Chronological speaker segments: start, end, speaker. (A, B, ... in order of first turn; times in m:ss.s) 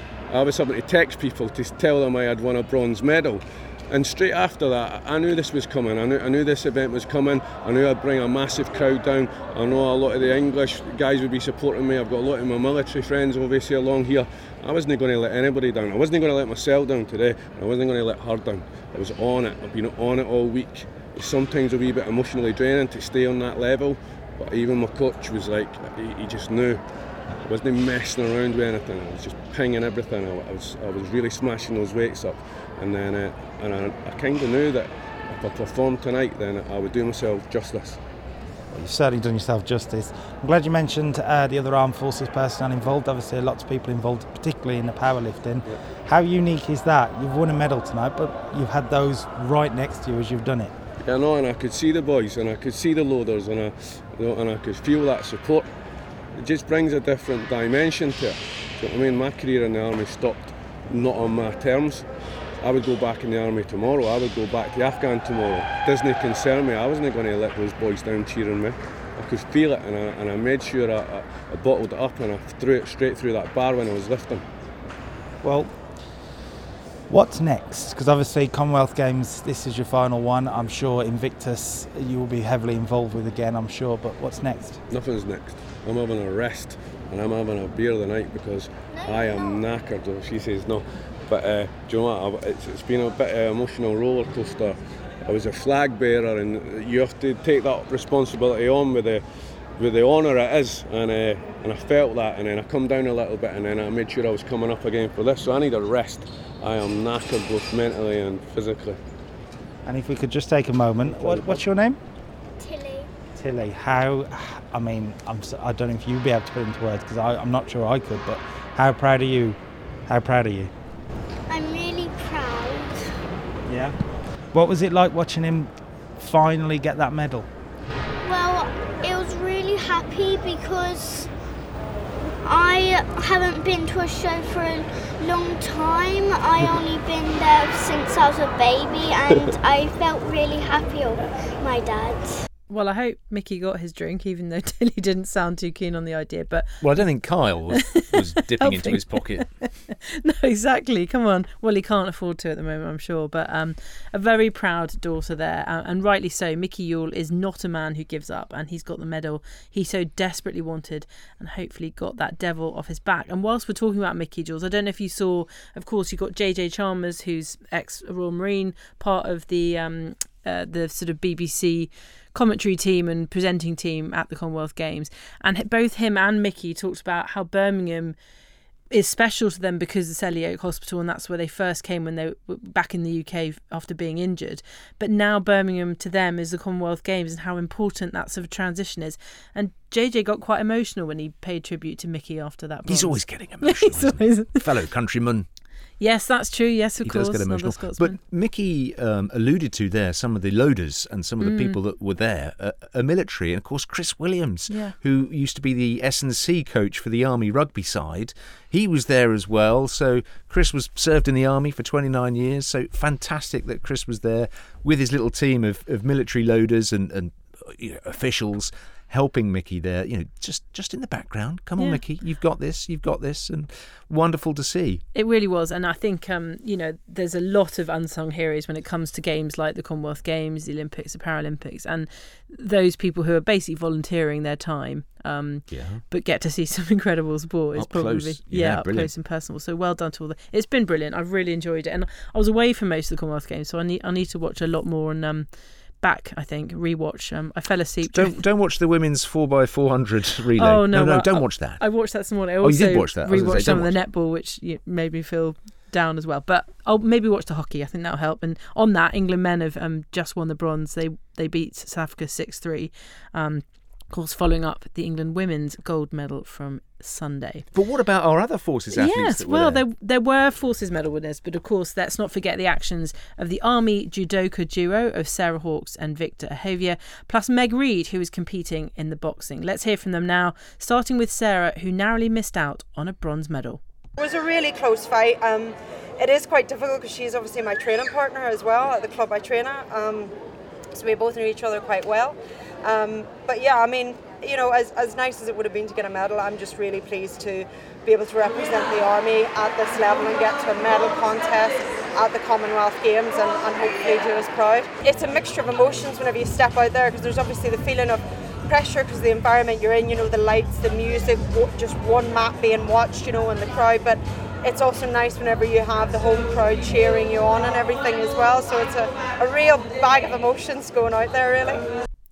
0:00.3-0:26.8 A
0:27.4-0:38.0 A
0:38.7-0:50.7 B
0:51.0-0:55.7 A
0:56.4-1:02.1 A
1:02.6-1:14.4 A
1:15.4-1:15.7 B
1:17.1-1:24.8 B
1:24.9-1:39.2 A
1:39.8-1:49.0 A
1:49.9-1:52.0 B
1:51.1-1:51.6 A
1:52.6-1:53.1 C
1:53.4-2:00.7 B
2:01.5-2:03.0 C
2:03.7-2:04.0 B
2:04.5-2:07.5 B
2:08.2-2:11.3 C
2:12.4-2:22.4 C
2:22.7-2:26.8 D
2:26.8-2:29.5 E
2:28.1-2:58.2 D
2:58.9-3:14.6 D
3:12.9-3:15.5 E
3:16.0-3:18.2 D
3:17.0-3:45.0 E
3:21.4-3:21.8 D
3:45.1-4:05.5 D
3:55.7-3:56.0 E
3:57.8-3:59.1 E
4:06.0-4:08.4 D
4:08.1-4:11.8 E
4:10.6-4:27.6 D
4:12.6-4:14.0 E
4:27.7-4:29.8 E
4:28.9-4:43.8 D
4:44.2-4:50.3 F
4:50.9-5:21.8 F